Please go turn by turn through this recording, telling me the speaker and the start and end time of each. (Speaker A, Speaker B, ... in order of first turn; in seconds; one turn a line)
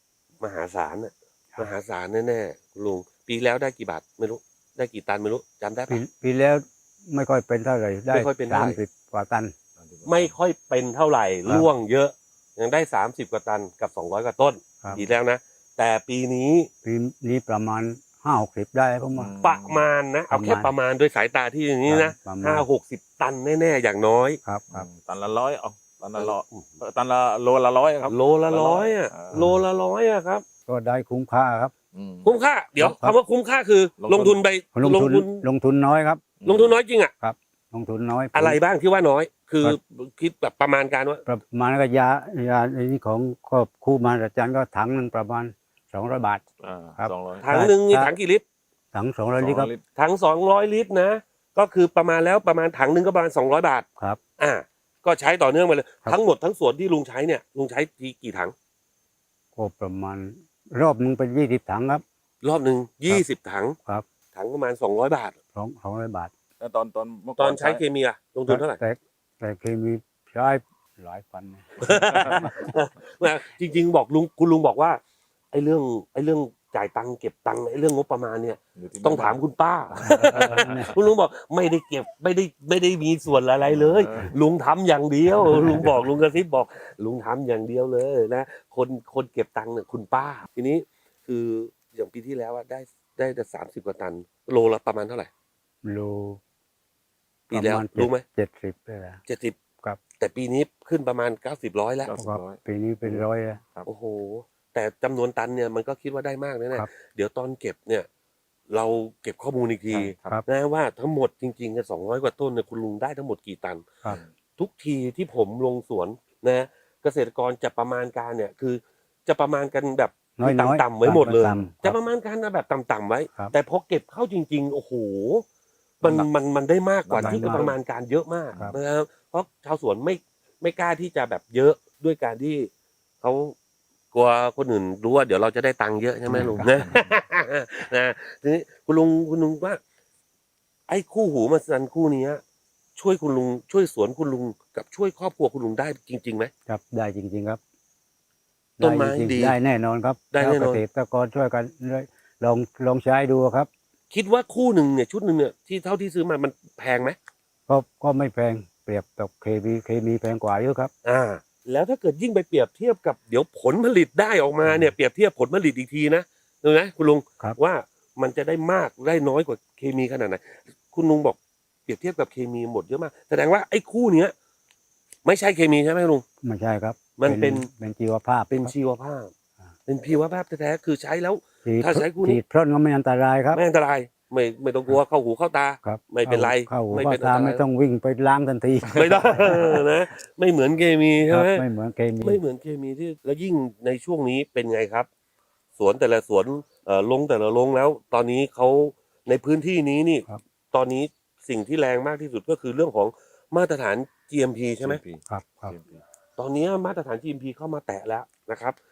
Speaker A: 0.4-6.0
Speaker B: 5.9-9.5
Speaker A: 8.1-8.8
Speaker C: 9.8-10.3
Speaker A: 10.1-16.7
Speaker B: 16.8-19.3
Speaker C: 19.1-19.8
Speaker A: 19.4-24.4
Speaker B: 20.3-20.7
Speaker B: 21.9-22.6
Speaker B: 24.4-24.9
Speaker C: 24.7-29.5
Speaker A: 26.2-26.7
Speaker A: 28.1-30.4
Speaker B: 29.3-29.6
Speaker B: 30.7-31.7
Speaker C: 31.9-32.3
Speaker A: 32.2-35.4
Speaker B: 32.8-33.1
Speaker C: 34.0-34.4
Speaker B: 34.7-36.2
Speaker C: 36.4-36.8
Speaker A: 36.4-37.1
Speaker B: 37.2-38.6
Speaker A: 38.3-41.2
Speaker B: 41.2-46.4
Speaker C: 46.6-47.5
Speaker B: 47.0-48.1
Speaker A: 47.4-48.4
Speaker B: 48.9-49.7
Speaker C: 49.4-49.8
Speaker A: 50.0-53.8
Speaker A: 54.4-58.5
Speaker B: 59.5-62.0
Speaker A: 62.4-63.8
Speaker A: 64.3-65.3
Speaker B: 65.5-66.3
Speaker C: 66.6-67.8
Speaker A: 67.4-68.8
Speaker B: 68.5-72.7
Speaker A: 71.8-75.0
Speaker A: 75.5-95.3
Speaker C: 78.8-79.4
Speaker C: 79.9-80.8
Speaker B: 80.1-80.9
Speaker C: 83.6-84.3
Speaker C: 85.5-85.8
Speaker B: 95.8-96.4
Speaker A: 97.5-98.2
Speaker B: 97.5-99.2
Speaker A: 99.3-99.5
Speaker A: 100.2-102.1
Speaker C: 102.0-103.9
Speaker B: 102.2-103.6
Speaker A: 103.8-108.1
Speaker A: 108.7-113.9
Speaker B: 109.9-110.4
Speaker C: 110.0-110.4
Speaker A: 114.6-125.4
Speaker B: 120.4-122.0
Speaker A: 126.0-132.7
Speaker C: 126.0-126.3
Speaker C: 127.0-127.8
Speaker B: 127.2-127.7
Speaker A: 133.2-133.5
Speaker A: 134.1-139.8
Speaker B: 136.3-136.7
Speaker C: 136.3-136.9
Speaker A: 140.9-142.4
Speaker A: 143.0-146.5
Speaker B: 146.7-147.6
Speaker A: 148.8-149.6
Speaker B: 148.8-153.7
Speaker A: 150.3-150.8
Speaker A: 154.1-157.2
Speaker B: 157.7-160.9
Speaker A: 161.0-174.3
Speaker B: 164.6-164.9
Speaker A: 175.2-176.2
Speaker B: 176.4-178.7
Speaker A: 177.2-177.7
Speaker A: 178.5-179.3
Speaker A: 179.9-182.4
Speaker B: 181.6-183.6
Speaker A: 183.5-187.6
Speaker B: 185.8-189.8
Speaker A: 188.9-191.7
Speaker B: 191.3-192.4
Speaker A: 192.2-195.1
Speaker A: 195.8-205.0
Speaker C: 204.8-206.0
Speaker B: 205.2-205.8
Speaker A: 206.4-208.8